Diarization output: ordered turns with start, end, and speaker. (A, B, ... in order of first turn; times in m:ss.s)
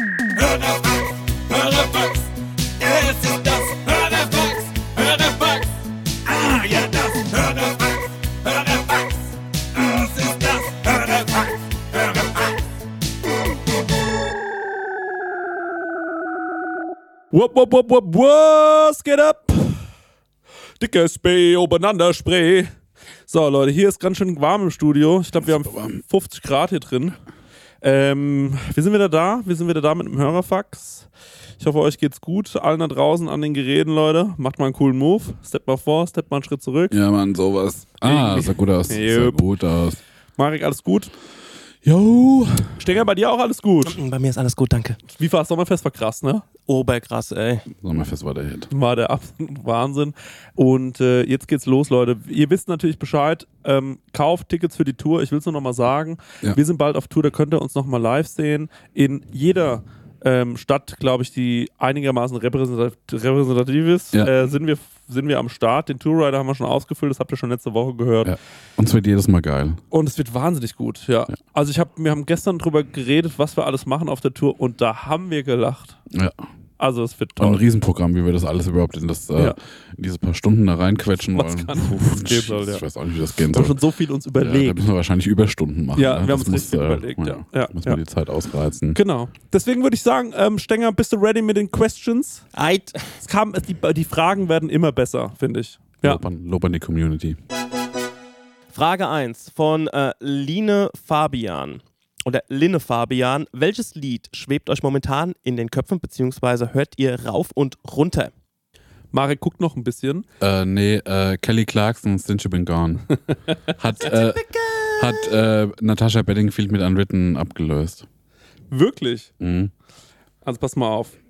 0:00.3-0:05.7 A
0:06.2-0:12.5 A
0:17.3-0:19.8 B
0:20.8-0:22.7 B
0:23.3-0:27.2 B
0:25.6-0:26.0 C
0:27.8-0:31.1 B
0:31.6-0:37.0 B
0:36.9-0:40.0 C
0:38.0-0:39.4 B
0:40.4-0:41.1 B
0:41.8-0:42.8 C
0:42.8-0:44.0 B
0:43.8-0:45.0 D
0:45.1-0:46.4 B
0:46.6-0:47.6 D
0:47.7-0:48.7 C
0:48.7-1:08.4 B
1:08.2-1:09.8 C
1:09.9-1:16.0 B
1:16.1-1:16.4 C
1:16.8-1:17.6 B
1:17.4-1:23.8 C
1:21.3-1:22.8 B
1:23.5-1:24.8 B
1:24.4-1:29.0 C
1:25.9-1:28.0 B
1:28.9-1:32.4 B
1:32.5-1:33.1 D
1:33.2-1:36.2 B
1:36.0-1:37.4 C
1:38.7-1:48.3 D
1:49.1-1:50.3 B
1:50.4-1:53.1 C
1:53.7-1:54.4 C
1:54.0-1:55.0 D
1:55.0-1:58.0 C
1:58.7-1:59.3 B
1:59.4-1:59.7 C
2:00.4-2:01.2 B